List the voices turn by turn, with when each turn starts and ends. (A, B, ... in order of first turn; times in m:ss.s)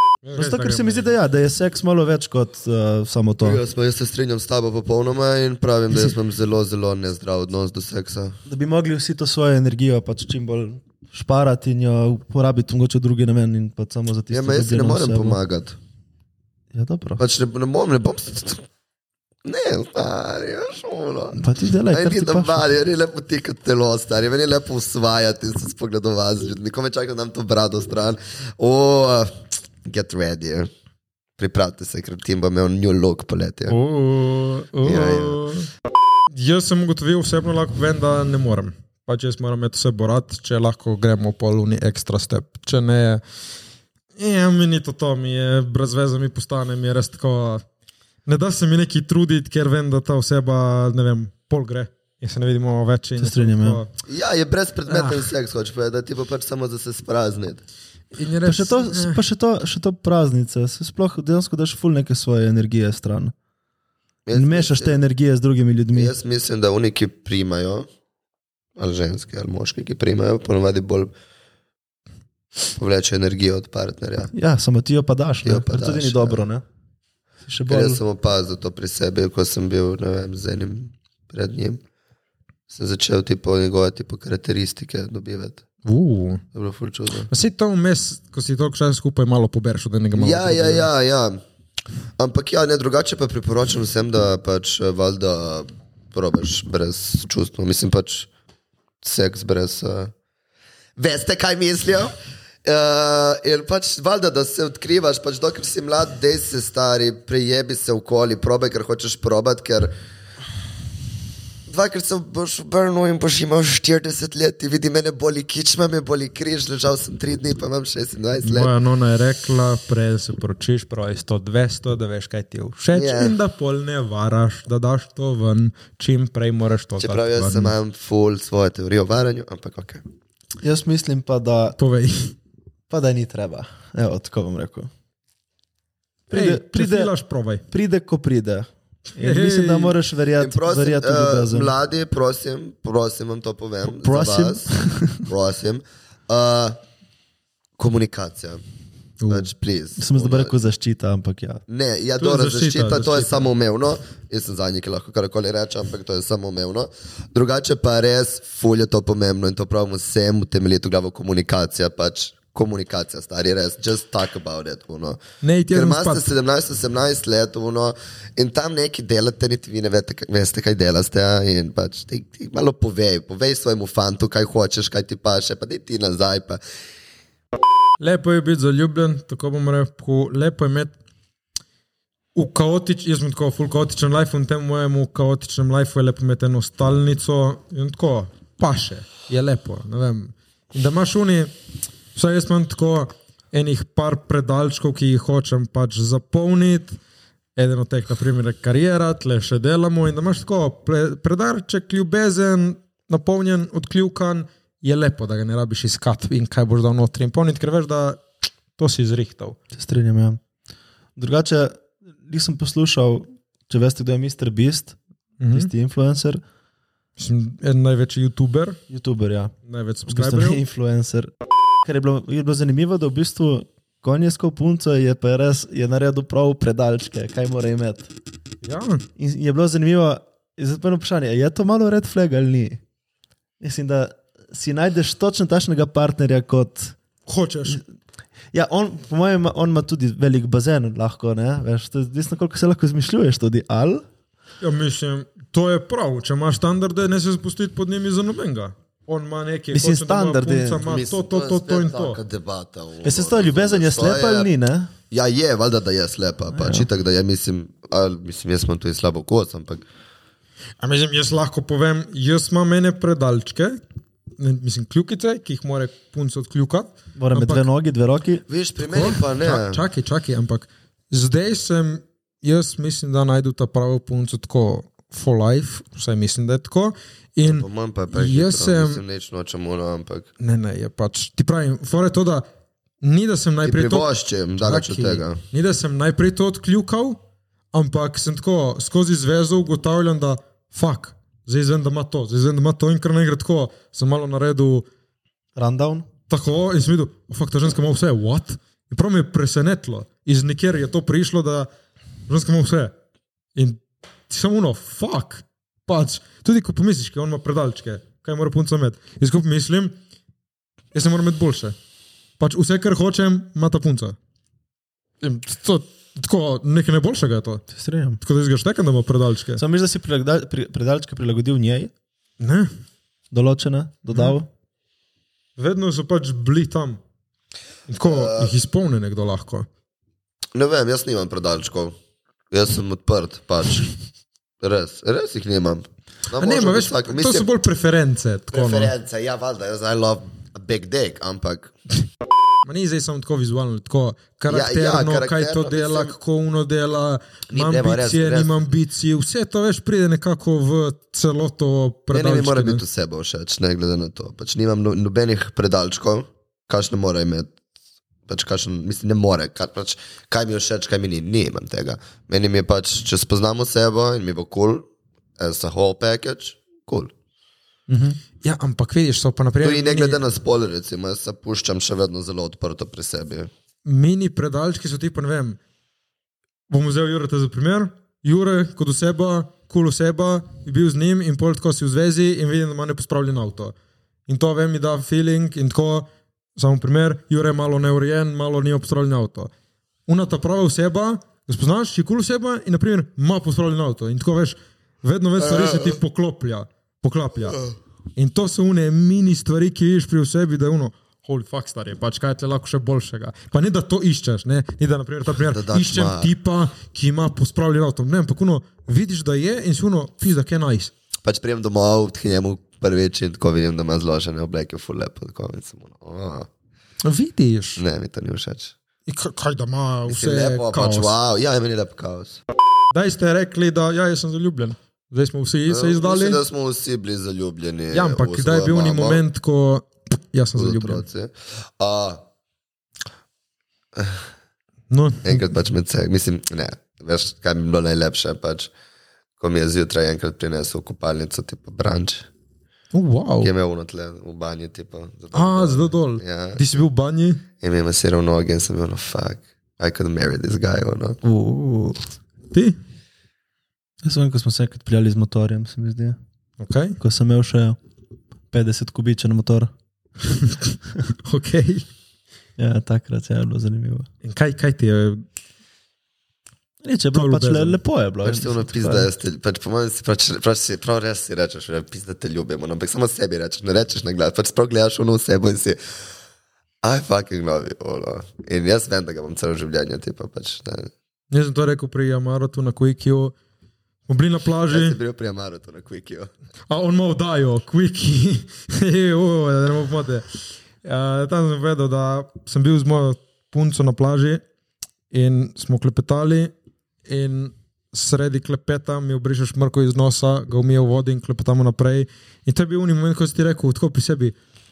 0:00.2-0:01.1 A
0:00.3-0:03.6 B
0:03.4-0:08.4 C
0:08.5-0:15.4 B
0:14.3-0:15.8 C
0:16.7-0:17.2 B
0:17.2-0:18.6 C
0:19.4-0:30.7 C
0:21.3-0:22.7 B
0:31.4-0:33.8 C
0:33.7-0:35.7 A
0:34.8-0:35.5 C
0:36.3-0:43.2 A
0:44.2-0:47.6 A
0:48.2-0:53.9 A
0:53.2-0:53.8 B
0:54.0-0:57.6 C
0:54.9-0:55.3 A
0:58.1-0:59.2 A
0:58.4-1:03.3 B
1:04.3-1:05.0 C
1:04.3-1:06.1 B
1:05.9-1:07.9 C
1:08.8-1:11.1 C
1:12.8-1:14.3 C
1:14.3-1:16.6 B
1:15.4-1:16.4 C
1:17.4-1:18.0 B
1:17.7-1:21.8 C
1:22.7-1:25.6 C
1:25.8-1:26.4 A
1:26.5-1:27.3 C
1:27.3-1:30.9 A
1:30.2-1:31.4 C
1:32.2-1:38.3 C
1:39.0-1:40.1 C
1:41.0-1:42.1 C
1:42.6-1:49.9 C
1:51.7-1:58.7 C
1:58.4-2:07.7 A
2:02.9-2:03.4 C
2:07.0-2:10.0 C
2:10.6-2:11.8 B
2:11.8-2:12.4 A
2:12.9-2:14.9 B
2:16.3-2:17.1 B
2:16.3-2:17.6 A
2:17.7-2:21.7 B
2:19.2-2:20.0 A
2:20.4-2:26.8 C
2:23.9-2:25.2 B
2:27.8-2:28.6 C
2:29.2-2:29.5 A
2:29.3-2:30.6 C
2:30.0-2:31.6 B
2:31.7-2:45.2 C
2:32.2-2:33.5 A
2:45.4-2:46.3 A
2:45.7-2:56.6 C
2:58.0-3:01.0 A
3:02.4-3:11.5 A
3:12.2-3:17.0 A
3:17.6-3:28.2 A
3:28.8-3:29.6 A
3:29.7-3:30.4 B
3:31.2-3:35.0 B
3:35.4-3:35.7 A
3:35.5-3:36.4 B
3:37.2-3:38.8 A
3:38.9-3:39.5 B
3:39.7-3:40.6 A
3:40.1-3:41.3 B
3:41.8-3:48.1 B
3:48.6-3:49.0 A
3:49.2-3:52.8 B
3:53.6-3:57.0 B
3:57.3-3:57.8 A
3:58.5-4:04.0 B
4:04.6-4:12.2 A
4:09.7-4:10.8 B
4:10.8-4:14.5 C
4:13.0-4:14.9 B
4:15.1-4:19.8 C
4:16.5-4:16.9 B
4:20.8-4:23.8 A
4:24.4-4:27.7 A
4:27.2-4:28.4 B
4:28.5-4:29.8 C
4:28.8-4:39.0 A
4:37.4-4:40.3 C
4:40.4-4:42.4 A
4:43.0-4:44.1 A
4:43.6-4:45.4 C
4:44.6-4:47.2 A
4:47.7-4:54.9 A
4:55.6-4:56.1 B
4:56.3-5:01.7 A
5:02.3-5:02.9 A
5:03.6-5:10.0 A
5:10.9-5:11.8 A
5:12.4-5:14.2 A
5:15.2-5:17.6 A
5:17.7-5:18.2 B
5:18.2-5:19.6 A
5:19.6-5:21.9 B
5:22.4-5:22.7 A
5:23.3-5:24.5 B
5:24.1-5:24.4 A
5:25.6-5:27.0 A
5:27.9-5:29.7 A
5:28.0-5:28.5 C
5:30.5-5:32.0 C
5:32.5-5:33.9 C
5:34.6-5:37.5 C
5:36.4-5:38.9 A
5:38.5-5:41.7 C
5:42.6-5:52.8 A
5:44.5-5:46.1 C
5:47.5-5:48.7 C
5:52.1-5:57.5 C
5:58.3-6:04.9 C
6:05.4-6:07.1 C
6:07.9-6:08.2 B
6:08.4-6:10.2 A
6:09.6-6:13.5 C
6:13.8-6:15.6 A
6:16.7-6:23.7 A
6:24.3-6:29.5 A
6:30.1-6:37.6 A
6:35.4-6:36.0 C
6:38.2-6:50.9 A
6:45.5-6:46.3 C
6:51.2-6:56.5 C
6:57.0-6:57.8 A
6:57.8-6:58.7 C
6:59.1-7:01.2 A
7:00.1-7:02.4 C
7:02.9-7:06.4 A
7:05.7-7:09.2 C
7:07.9-7:11.0 A
7:10.6-7:12.2 C
7:14.0-7:14.2 C
7:14.9-7:15.5 A
7:15.2-7:18.7 C
7:19.4-7:22.3 C
7:22.9-7:23.5 A
7:23.4-7:26.6 C
7:25.3-7:27.4 A
7:27.6-7:31.2 C
7:31.2-7:32.8 A
7:34.0-7:36.2 B
7:36.6-7:37.0 A
7:37.0-7:37.8 B
7:38.5-7:39.7 B
7:40.3-7:41.9 A
7:42.6-7:44.1 B
7:44.2-7:45.2 A
7:46.8-7:49.1 B
7:47.1-7:47.8 A
7:48.2-7:55.8 C
7:56.8-8:00.9 C
8:01.3-8:03.3 A
8:04.1-8:05.0 A
8:04.7-8:06.3 C
8:06.7-8:14.4 A
8:15.1-8:16.5 A
8:17.1-8:24.4 A